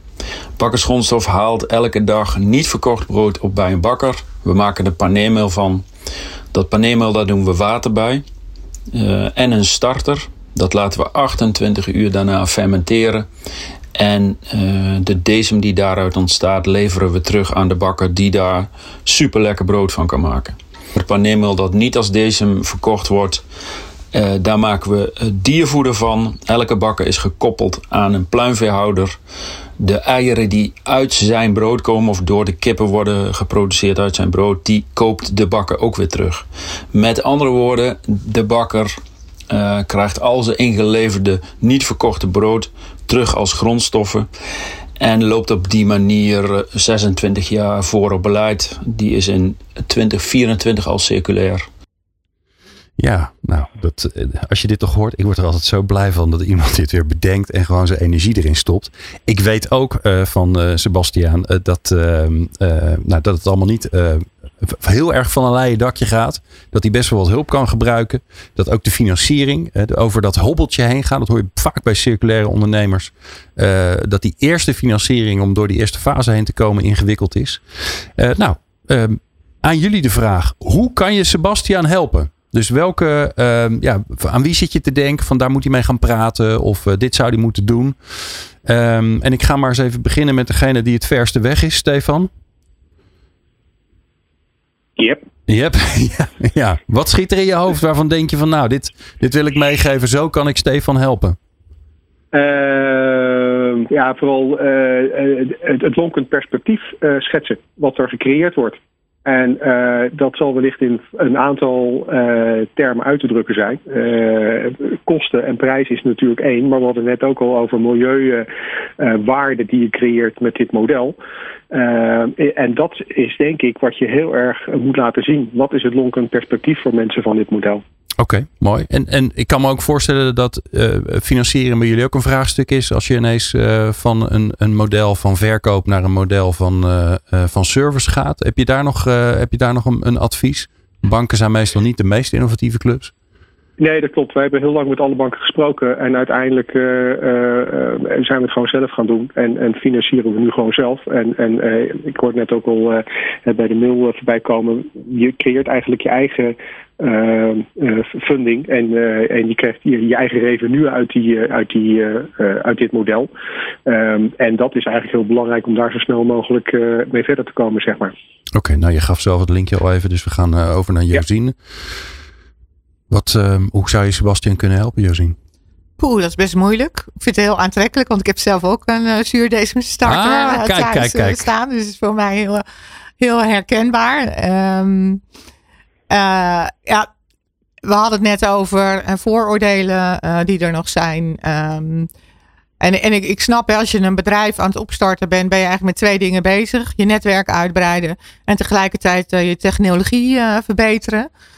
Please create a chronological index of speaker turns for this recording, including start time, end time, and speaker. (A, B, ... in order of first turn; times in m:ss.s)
0:00.6-0:05.8 A
0:06.5-0:08.2 A
0:08.9-0:13.3 A
0:14.0-0:23.4 A
0:24.1-0:29.2 A
0:29.8-0:39.0 A
0:39.5-0:44.3 A
0:45.0-0:51.7 A
0:53.0-1:17.6 B
1:18.2-1:28.0 B
1:28.6-1:32.3 B
1:35.5-1:41.4 B
1:42.3-1:58.5 C
1:59.0-2:01.2 C
2:01.7-2:07.8 C
2:08.2-2:23.1 B
2:23.8-2:43.3 C
2:43.9-2:48.1 C
2:48.6-2:51.6 B
2:53.1-2:55.4 B
2:56.0-3:02.6 D
3:00.0-3:01.5 B
3:03.2-3:05.2 D
3:06.1-3:07.1 D
3:07.8-3:12.1 D
3:12.8-3:21.3 D